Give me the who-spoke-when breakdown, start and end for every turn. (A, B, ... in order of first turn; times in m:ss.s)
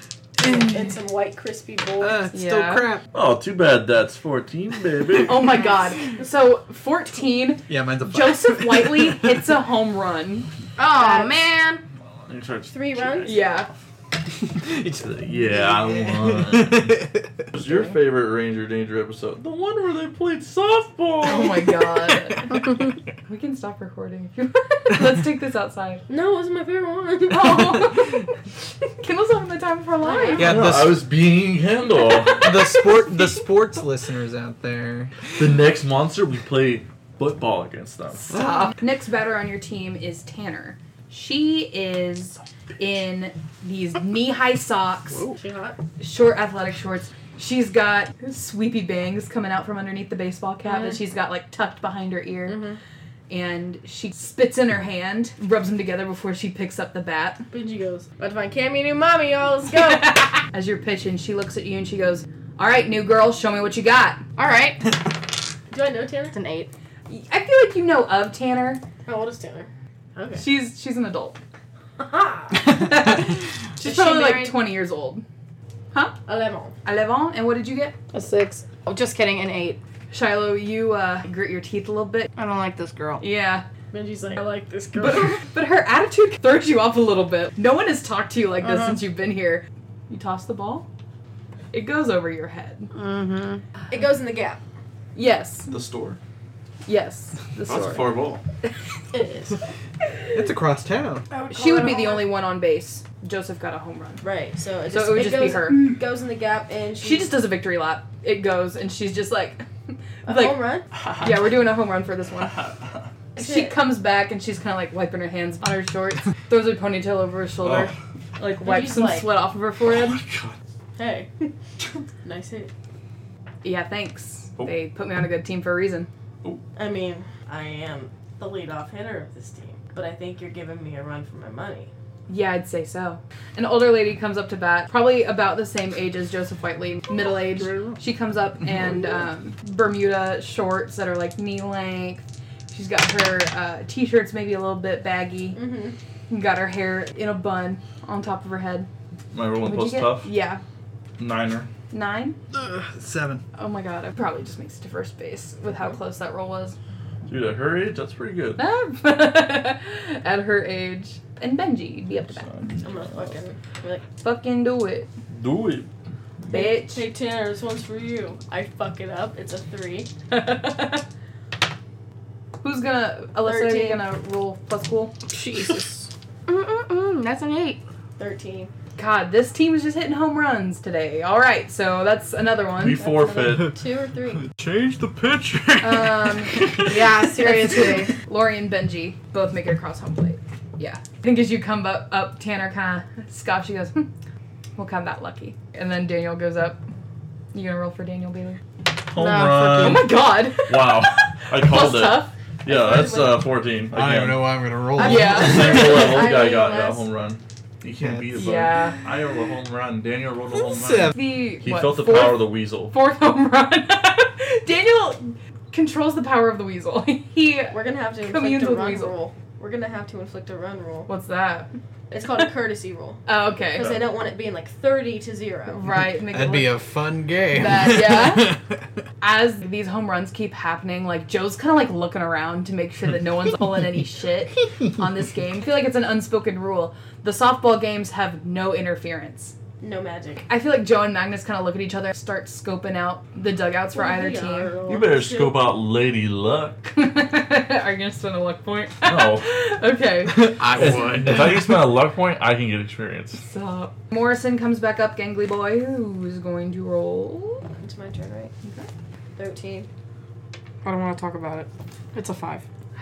0:00.4-0:02.2 A
0:02.0-0:03.1 B
0:02.3-0:02.9 C
0:03.1-0:05.6 D
0:05.2-0:10.5 C
0:07.7-0:09.2 B
0:10.8-0:11.8 E
0:12.2-0:13.5 D
0:12.7-0:13.4 A
0:13.2-0:13.7 C
0:14.6-0:17.4 B
0:14.8-0:21.8 D
0:21.2-0:26.0 C
0:26.1-0:28.0 A
0:27.3-0:28.3 C
0:29.0-0:30.5 C
0:30.0-0:30.6 A
0:30.4-0:31.1 B
0:30.4-0:32.7 D
0:32.2-0:32.7 C
0:32.3-0:35.2 B
0:35.4-0:38.3 D
0:38.1-0:45.2 C
0:45.1-0:45.4 D
0:45.4-0:45.8 A
0:46.0-0:52.6 C
0:50.6-0:51.0 A
0:52.5-0:52.8 A
0:53.3-0:57.4 C
0:57.5-1:00.4 A
0:59.7-1:04.2 C
1:04.4-1:05.1 E
1:05.7-1:06.4 A
1:06.3-1:06.7 E
1:07.1-1:08.8 C
1:09.0-1:10.4 A
1:10.4-1:11.4 C
1:12.0-1:12.8 A
1:12.6-1:15.2 C
1:13.8-1:14.6 E
1:16.2-1:16.7 A
1:16.8-1:18.0 C
1:18.1-1:19.8 E
1:20.1-1:22.3 C
1:22.3-1:23.2 E
1:23.2-1:23.6 C
1:23.9-1:25.4 A
1:25.0-1:30.9 C
1:31.7-1:32.9 C
1:32.9-1:33.6 E
1:33.9-1:34.6 A
1:35.1-1:35.7 C
1:35.7-1:36.2 D
1:36.8-1:38.1 C
1:37.7-1:38.4 D
1:39.1-1:39.6 A
1:40.3-1:41.3 B
1:41.3-1:42.3 A
1:41.5-1:44.2 C
1:44.2-1:47.4 A
1:44.8-1:45.9 C
1:47.0-1:49.6 C
1:50.2-1:50.6 C
1:50.2-1:50.9 A
1:51.0-1:51.3 D
1:51.2-1:52.6 C
1:52.5-1:53.0 D
1:53.3-2:00.2 C
1:53.4-1:53.8 A
1:57.6-1:57.9 D
1:58.6-1:59.3 A
1:59.8-2:00.6 D
2:01.0-2:02.7 A
2:03.6-2:06.1 C
2:06.7-2:11.9 A
2:12.3-2:25.6 C
2:25.5-2:26.0 A
2:26.3-2:28.9 C
2:29.3-2:30.3 D
2:29.6-2:30.6 C
2:31.2-2:31.7 D
2:31.9-2:32.4 C
2:32.5-2:33.4 B
2:33.6-2:36.8 C
2:37.3-2:38.6 D
2:38.6-2:42.5 C
2:42.3-2:43.4 D
2:42.8-2:44.0 A
2:44.2-2:45.1 C
2:45.3-2:45.9 D
2:46.5-2:47.1 C
2:46.5-2:50.1 A
2:50.3-2:51.0 C
2:52.6-2:55.1 C
2:53.4-2:54.0 A
2:55.3-2:57.8 E
2:58.2-2:58.7 A
2:59.0-3:03.6 C
3:02.8-3:03.8 D
3:03.3-3:04.4 A
3:04.4-3:07.1 D
3:05.8-3:06.8 C
3:06.8-3:08.1 E
3:07.4-3:14.1 C
3:14.8-3:16.8 C
3:17.5-3:18.6 C
3:19.0-3:32.9 D
3:19.1-3:20.1 E
3:19.8-3:22.3 C
3:22.6-3:23.4 A
3:23.9-3:25.9 B
3:25.0-3:27.0 A
3:25.0-3:26.0 C
3:28.0-3:28.4 B
3:28.3-3:29.0 C
3:30.6-3:31.1 B
3:31.1-3:39.1 C
3:37.7-3:41.1 A
3:41.1-3:41.7 C
3:42.1-3:45.8 A
3:43.2-3:43.9 C
3:43.8-3:44.1 D
3:45.7-3:46.8 C
3:45.9-3:48.8 B
3:47.5-3:48.6 C
3:49.2-3:59.5 C
3:59.8-4:00.5 A
4:00.5-4:04.7 C
4:03.9-4:05.7 A
4:04.8-4:06.9 D
4:06.9-4:11.2 C
4:09.0-4:09.5 D
4:10.4-4:11.7 B
4:10.6-4:13.4 D
4:13.4-4:17.7 C
4:17.8-4:18.5 A
4:18.6-4:18.9 C
4:19.4-4:19.9 A
4:20.8-4:21.7 C
4:22.1-4:22.6 E